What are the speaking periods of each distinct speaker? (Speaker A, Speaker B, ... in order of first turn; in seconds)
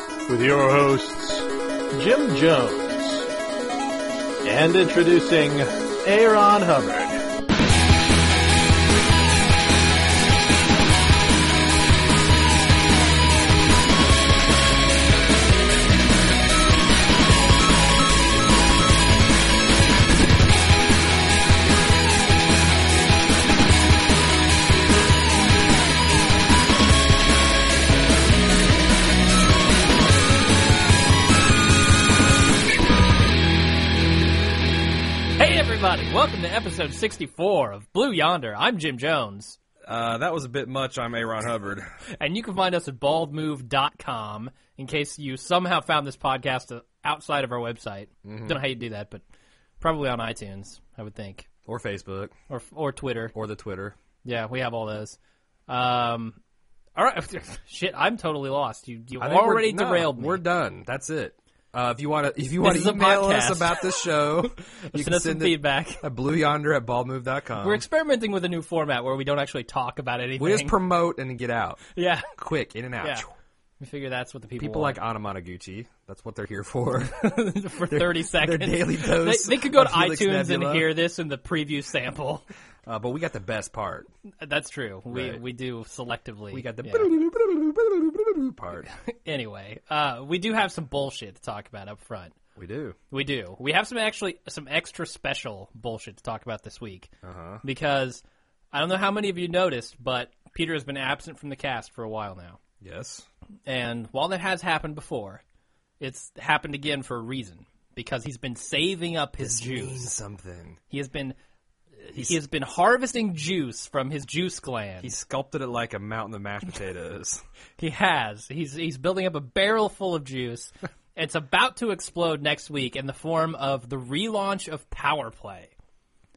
Speaker A: 0.3-3.3, 4.4-7.2
Speaker B: 35.4-39.6, 42.2-49.2, 49.8-51.5, 52.5-53.3, 54.2-56.4, 57.0-60.4, 62.6-66.0, 67.6-70.8, 71.9-72.3, 73.0-73.2, 73.8-75.0, 77.1-82.4, 84.4-87.1, 88.9-92.3, 93.1-97.1, 97.6-102.6, 103.7-105.4, 106.0-110.1, 110.9-111.3, 112.0-115.1, 117.8-125.7
Speaker C: 39.9-41.9, 48.2-48.6, 51.7-52.3, 53.3-54.0, 59.2-67.8, 70.4-73.2, 74.6-80.9, 82.8-84.1, 85.1-85.4, 86.5-88.9, 92.5-93.0, 97.2-97.6, 102.8-103.2, 109.4-110.8, 115.0-117.4